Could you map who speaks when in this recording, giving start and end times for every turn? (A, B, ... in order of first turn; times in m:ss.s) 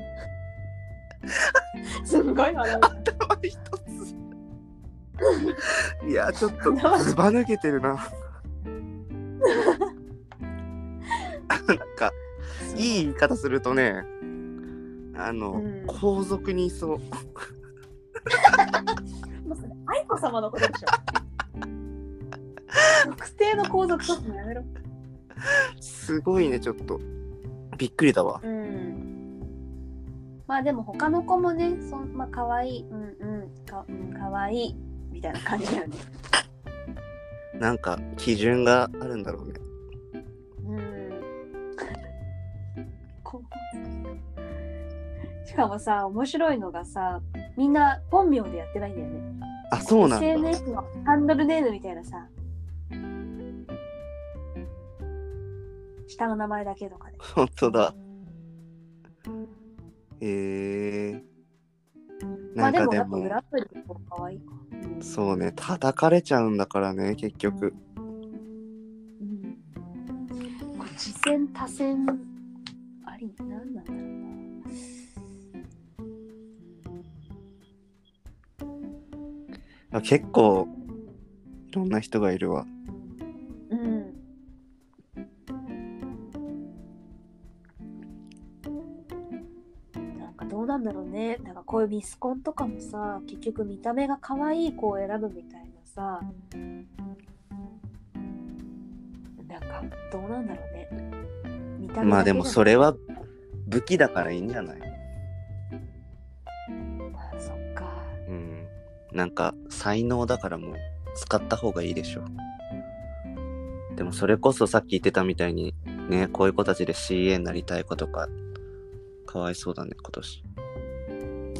0:02.0-0:03.0 A
0:02.8-0:04.1 B
0:05.2-0:05.6 A
0:05.6-0:08.0 B
0:06.5-0:07.1 A
0:09.4-0:09.9 A
0:11.5-0:12.2 B
0:12.6-0:13.0 A
0:12.7-0:14.1 B
0:15.1-0:17.0 B
0:15.5-0:16.0 A
0:18.3-0:18.8 A
0:19.4-0:21.0 A
0:23.0-0:24.7 A
0:25.8-0:27.0 B
0:27.8-0:28.4 B
0:28.4-0:29.0 A
0:30.5-0:36.0 A
0:37.6-0:39.6 B
0:40.6-0:41.3 A
0:43.2-0:43.7 A
0:45.4-0:49.3 A
0:49.7-0:50.5 B
0:50.0-0:52.3 A
0:56.1-0:57.2 A
0:57.2-0:58.0 B
1:00.2-1:01.2 B
1:02.6-1:03.4 B
1:02.6-1:05.1 A
1:05.0-1:07.8 B
1:09.2-1:09.8 A
1:10.8-1:12.3 A
1:13.0-1:14.1 A
1:19.9-1:20.7 B
1:21.7-1:22.7 B
1:23.7-1:24.2 A
1:30.2-1:36.3 A
1:39.4-1:40.9 A
1:41.8-1:43.0 A
1:42.0-1:43.0 B
1:43.7-1:44.8 B
1:47.1-1:48.2 A
1:48.3-1:52.3 B
1:54.0-1:58.3 B
1:59.3-2:00.4 B